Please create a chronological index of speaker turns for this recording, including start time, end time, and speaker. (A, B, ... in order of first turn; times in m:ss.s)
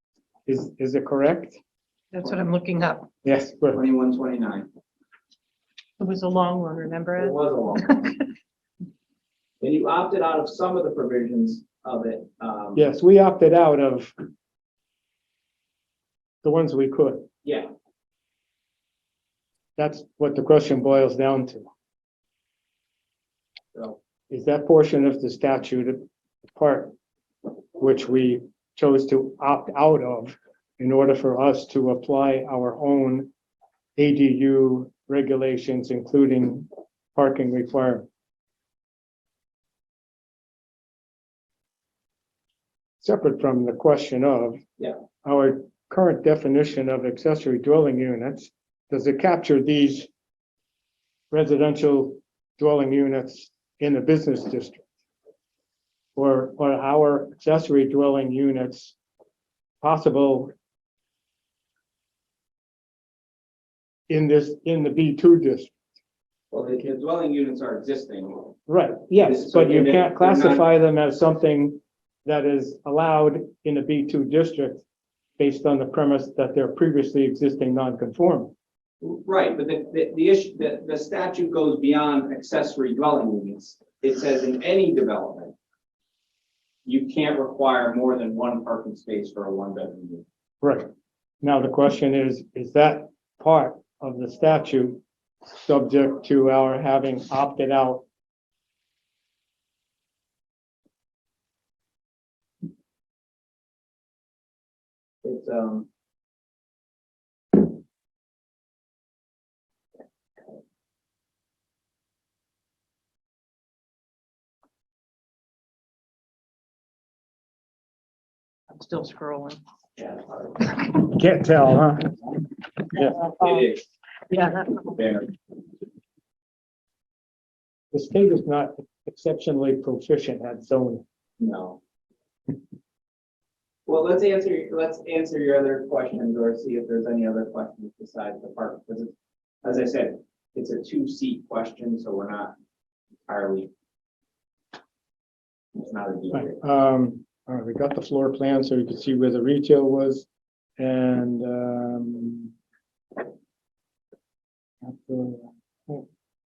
0:00.5-0:01.6 A
0:02.1-0:03.1 B
0:02.2-0:02.5 C
0:03.2-0:03.8 A
0:03.7-0:04.7 C
0:06.0-0:07.4 B
0:07.2-0:08.1 C
0:09.6-0:12.9 C
0:12.8-0:14.1 A
0:16.4-0:17.3 A
0:19.8-0:21.7 A
0:24.3-0:26.0 A
0:26.6-0:26.9 A
0:27.8-0:33.3 A
0:34.0-0:38.1 A
0:43.0-0:44.6 A
0:45.2-0:50.1 A
0:51.3-0:54.8 A
0:56.2-0:59.0 A
0:59.8-1:00.5 A
1:04.1-1:05.7 A
1:06.5-1:08.6 C
1:08.7-1:14.8 A
1:09.2-1:10.7 C
1:15.4-1:18.5 A
1:19.0-1:25.6 C
1:26.9-1:30.2 C
1:30.6-1:30.9 A
1:31.4-1:35.0 A
1:35.6-1:38.0 A
1:45.2-1:45.9 C
1:58.7-1:59.6 B
2:00.0-2:00.7 C
2:01.0-2:02.2 A
2:03.0-2:03.9 C
2:04.3-2:04.8 B
2:04.7-2:05.3 C
2:07.9-2:11.0 A
2:11.4-2:11.8 C
2:13.9-2:19.1 C
2:19.6-2:22.5 C
2:23.3-2:23.7 C
2:25.8-2:26.6 C
2:26.3-2:30.3 A
2:30.8-2:32.5 A
2:34.8-2:36.0 A